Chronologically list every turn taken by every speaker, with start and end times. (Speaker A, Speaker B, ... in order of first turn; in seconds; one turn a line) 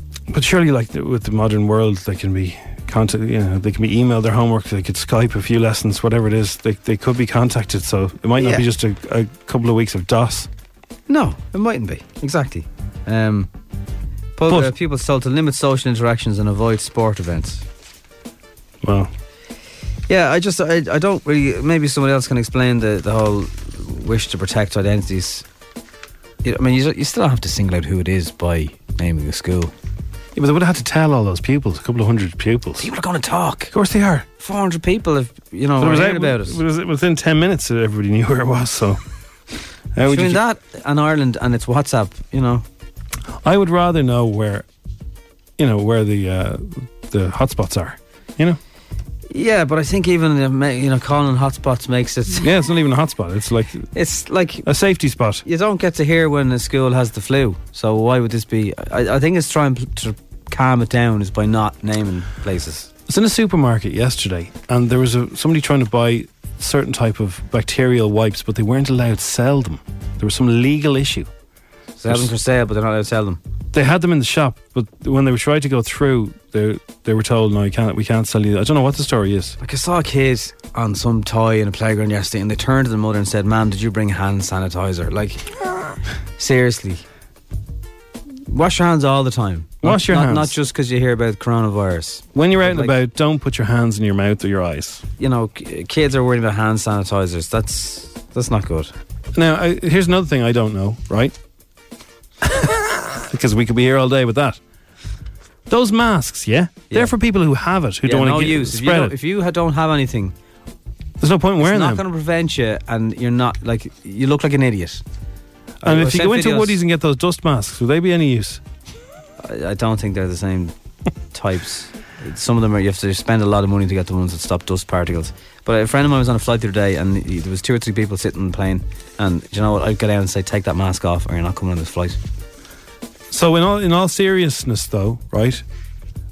Speaker A: 0.3-10.5
Speaker B: 8.4-8.6
Speaker B: 11.1-13.5
Speaker B: 14.4-17.6
Speaker A: 14.5-14.7
Speaker A: 18.8-19.1
Speaker B: 20.1-25.4
Speaker B: 26.4-29.7
Speaker A: 30.4-32.9
Speaker B: 32.8-33.7
Speaker A: 33.7-34.2
Speaker B: 34.4-36.6
Speaker A: 35.8-39.0
Speaker A: 40.0-40.4
Speaker B: 40.0-42.6
Speaker A: 43.4-44.6
Speaker A: 45.6-48.6
Speaker B: 49.3-52.5
Speaker A: 52.4-53.9
Speaker B: 53.9-54.7
Speaker A: 54.6-55.4
Speaker B: 55.4-62.9
Speaker A: 63.1-71.3
Speaker B: 72.0-73.4
Speaker A: 72.0-72.3
Speaker A: 73.7-79.5
Speaker B: 79.6-85.4
Speaker B: 86.4-87.0
Speaker B: 88.5-93.0
Speaker A: 89.8-90.5
Speaker A: 92.3-95.0
Speaker B: 95.2-98.9
Speaker A: 99.3-101.3
Speaker A: 103.3-104.6
Speaker A: 105.7-109.1
Speaker B: 108.0-110.3
Speaker A: 111.2-112.0
Speaker B: 111.6-115.0
Speaker B: 115.8-116.8
Speaker A: 115.8-118.6
Speaker B: 119.4-120.7
Speaker B: 121.3-132.2
Speaker A: 133.3-135.6